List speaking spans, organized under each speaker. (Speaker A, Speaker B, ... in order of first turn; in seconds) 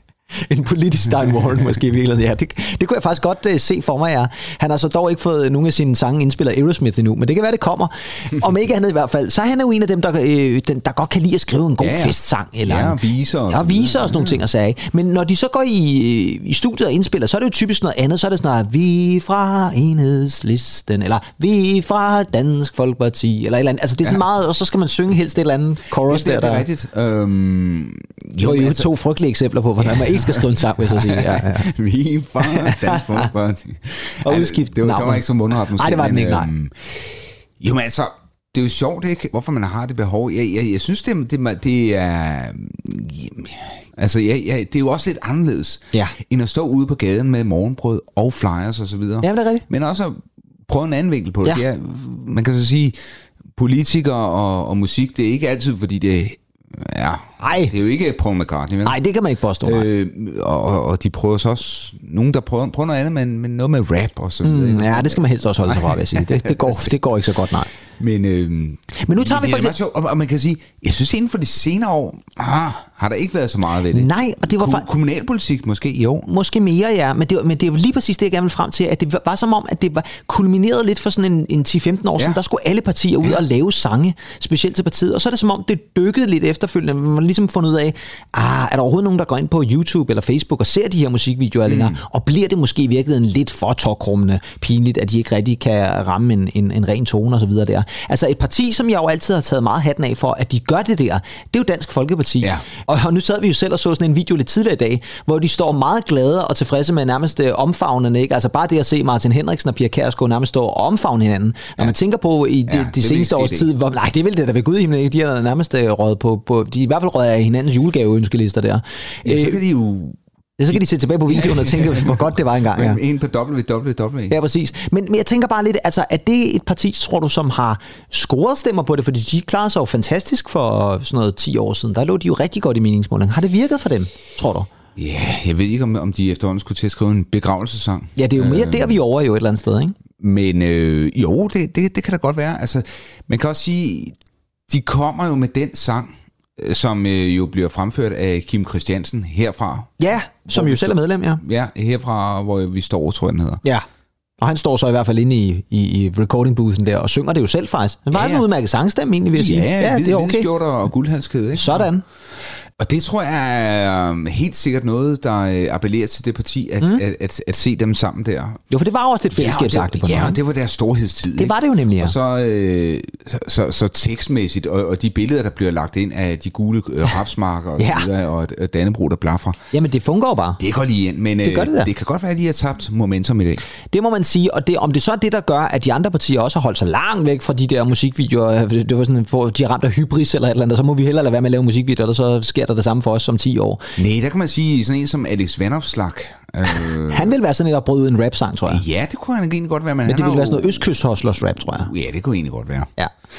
Speaker A: 0.5-13.0, 13.5-26.6, 28.4-31.7, 32.4-33.3, 34.2-36.5, 49.2-49.6, 57.4-57.7, 58.8-59.9, 64.4-67.7, 69.0-69.8, 73.9-74.9, 76.3-119.6, 120.6-123.0, 124.3-134.7, 138.2-140.0, 150.0-151.4, 154.4-160.5, 161.6-162.0, 168.7-170.4, 171.4-172.1, 177.8-178.1, 179.7-180.6, 181.4-181.9, 183.9-193.8, 197.0-198.8, 200.1-201.9
Speaker B: 11.8-14.4, 26.0-28.9, 29.8-53.0, 53.5-59.0, 59.6-67.0, 68.0-76.3, 91.7-92.0, 112.7-113.7, 119.2-120.2, 120.7-124.4, 135.0-139.0, 140.2-144.2, 144.7-153.6, 158.1-158.4, 159.3-161.9, 162.8-168.6, 169.3-179.6, 180.6-183.6, 194.0-197.3, 198.7-200.8, 201.7-202.9